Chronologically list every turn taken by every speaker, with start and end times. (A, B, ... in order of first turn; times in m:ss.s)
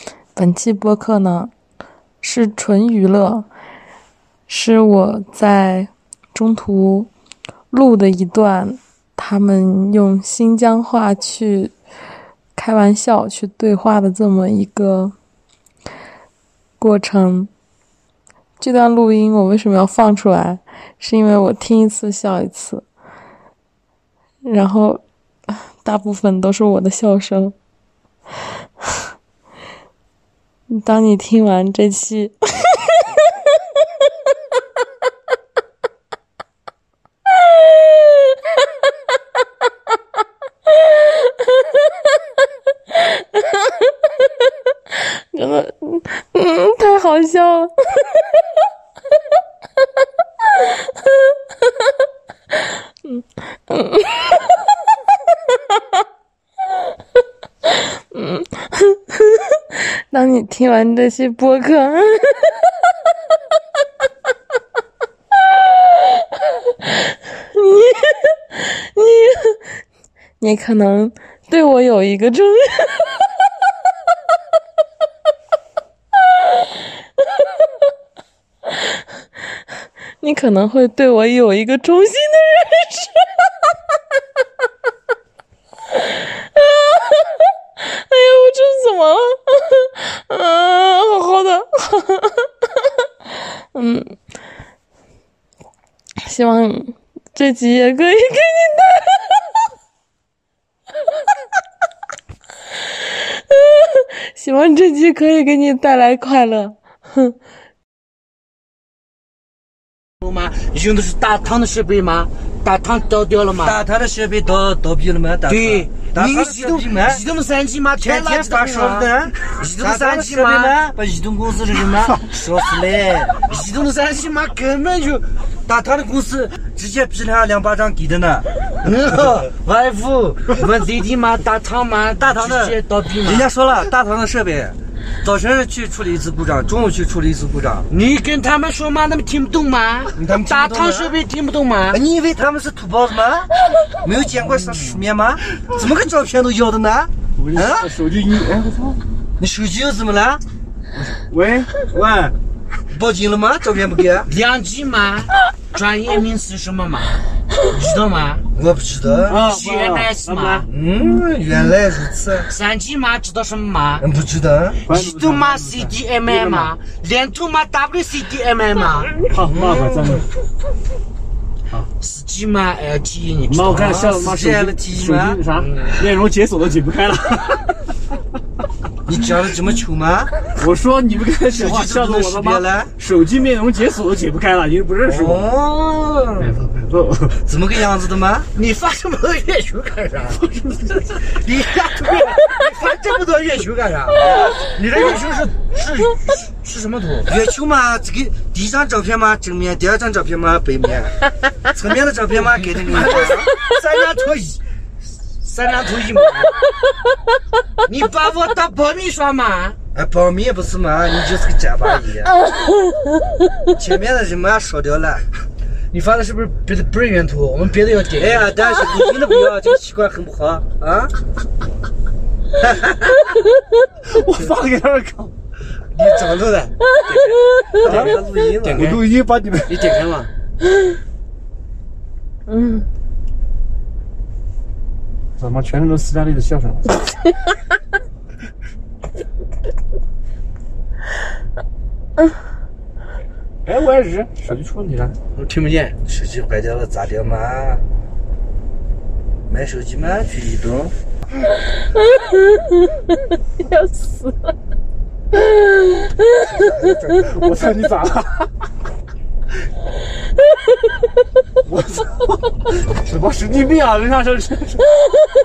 0:00.4-0:01.5 A
0:02.2-0:03.5 A
0:04.5-0:07.1 A
0:07.7-0:11.7 A
0:12.6-0:15.1 A
0:16.8-0:17.5 A
0:18.6-0:22.8 A
0:24.4-0:25.0 A
0:25.8-0:27.6 A
0:30.7-0:33.0 A
0:37.5-0:38.4 A
0:40.9-0:41.7 A
0:42.9-0:43.9 A
0:44.9-0:48.4 A
0:50.6-0:51.4 A
0:52.5-0:54.6 A
0:55.5-0:55.8 A
0:57.7-1:02.7 A
1:05.8-1:09.6 A
1:10.4-1:13.3 A
1:16.4-1:16.8 A
1:20.2-1:23.3 A
1:26.0-1:32.5 A
1:33.6-1:34.2 A
1:36.2-1:39.6 A
1:43.2-1:47.4 A
1:50.2-1:53.8 B
1:53.6-1:57.2 C
1:55.5-2:00.8 B
1:58.0-2:03.5 C
2:03.5-2:05.3 B
2:05.7-2:09.5 C
2:08.8-2:13.5 B
2:12.2-2:17.9 C
2:17.9-2:22.0 B
2:20.2-2:21.2 C
2:21.9-2:23.5 C
2:24.0-2:27.9 C
2:27.4-2:29.0 D
2:29.4-2:30.4 C
2:30.9-2:32.3 D
2:32.9-2:34.3 C
2:34.3-2:38.4 B
2:38.6-2:39.4 C
2:39.3-2:40.7 D
2:39.3-2:40.7 B
2:40.7-2:42.5 C
2:42.5-2:44.0 B
2:44.0-2:44.8 C
2:44.9-2:46.7 D
2:44.9-2:49.2 B
2:49.3-2:50.3 D
2:49.4-2:49.9 C
2:52.0-2:54.0 B
2:53.5-2:57.8 D
2:53.7-2:55.4 C
2:55.6-2:55.9 B
2:59.1-3:00.3 C
3:00.6-3:05.4 D
3:01.5-3:02.9 C
3:05.0-3:06.6 C
3:06.4-3:07.4 D
3:07.5-3:08.5 C
3:08.6-3:17.3 B
3:10.4-3:11.0 D
3:14.1-3:14.6 C
3:17.3-3:21.1 C
3:21.7-3:23.5 C
3:22.9-3:24.6 B
3:25.4-3:26.6 B
3:27.9-3:29.8 B
3:29.9-3:32.4 C
3:33.8-3:35.2 C
3:35.9-3:38.5 B
3:38.2-3:41.1 C
3:42.6-3:43.3 C
3:44.0-3:45.3 D
3:46.0-3:47.4 B
3:47.8-3:49.0 C
3:47.8-3:48.2 D
3:48.8-3:50.1 D
3:49.7-3:50.3 B
3:52.5-3:52.8 A
3:55.4-3:57.0 D
4:03.7-4:05.2 D
4:05.4-4:06.0 B
4:06.0-4:07.8 C
4:09.5-4:10.9 C
4:13.7-4:14.3 B
4:16.3-4:17.4 C
4:17.2-4:18.5 D
4:21.6-4:25.0 D